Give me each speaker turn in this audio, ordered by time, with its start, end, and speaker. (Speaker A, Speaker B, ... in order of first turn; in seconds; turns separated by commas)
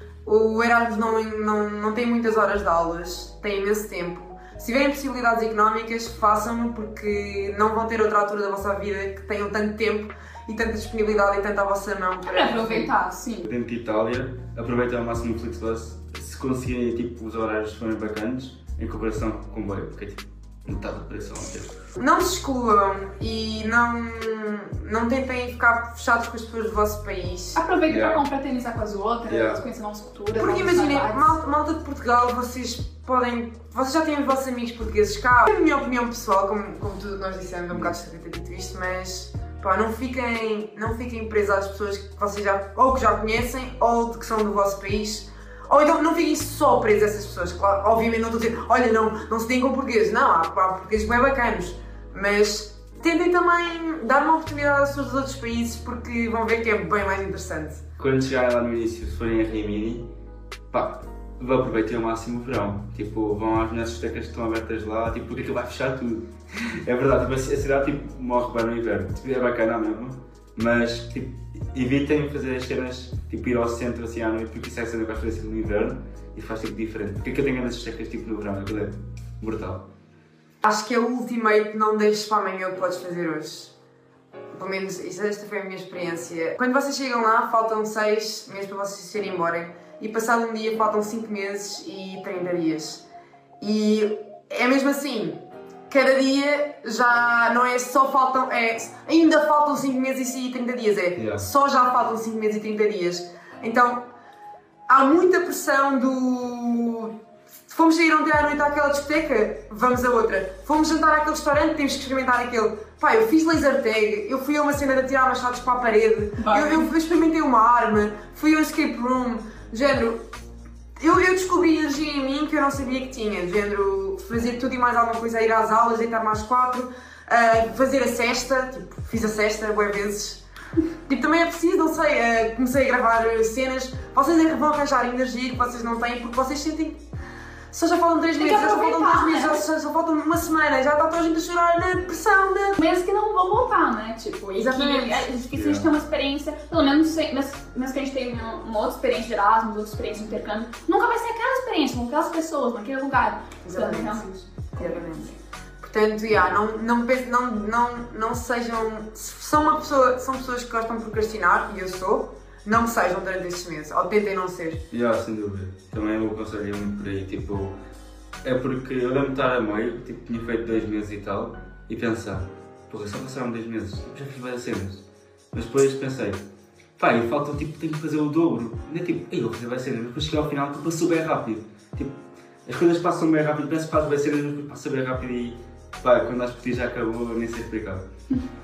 Speaker A: 0.2-12.9, Speaker B: 12.3-13.5, Speaker C: 13.4-21.7, Speaker A: 22.0-27.6, Speaker B: 27.5-31.3, Speaker C: 27.9-28.2, Speaker C: 29.3-29.6, Speaker A: 30.3-57.8, Speaker C: 58.0-60.1, Speaker C: 60.7-79.8, Speaker A: 80.6-83.7, Speaker A: 84.5-93.0, Speaker A: 93.6-104.0, Speaker C: 101.2-101.4, Speaker A: 104.9-107.1, Speaker A: 107.7-120.2, Speaker B: 116.4-116.9, Speaker A: 121.0-130.4, Speaker A: 131.1-137.0, Speaker A: 137.7-142.8, Speaker B: 138.4-139.6, Speaker B: 142.8-155.3, Speaker A: 144.6-145.3, Speaker C: 145.5-145.9, Speaker A: 153.6-154.2, Speaker A: 154.8-155.3, Speaker A: 155.8-164.8, Speaker C: 164.9-167.7, Speaker C: 168.4-176.4, Speaker C: 177.0-188.0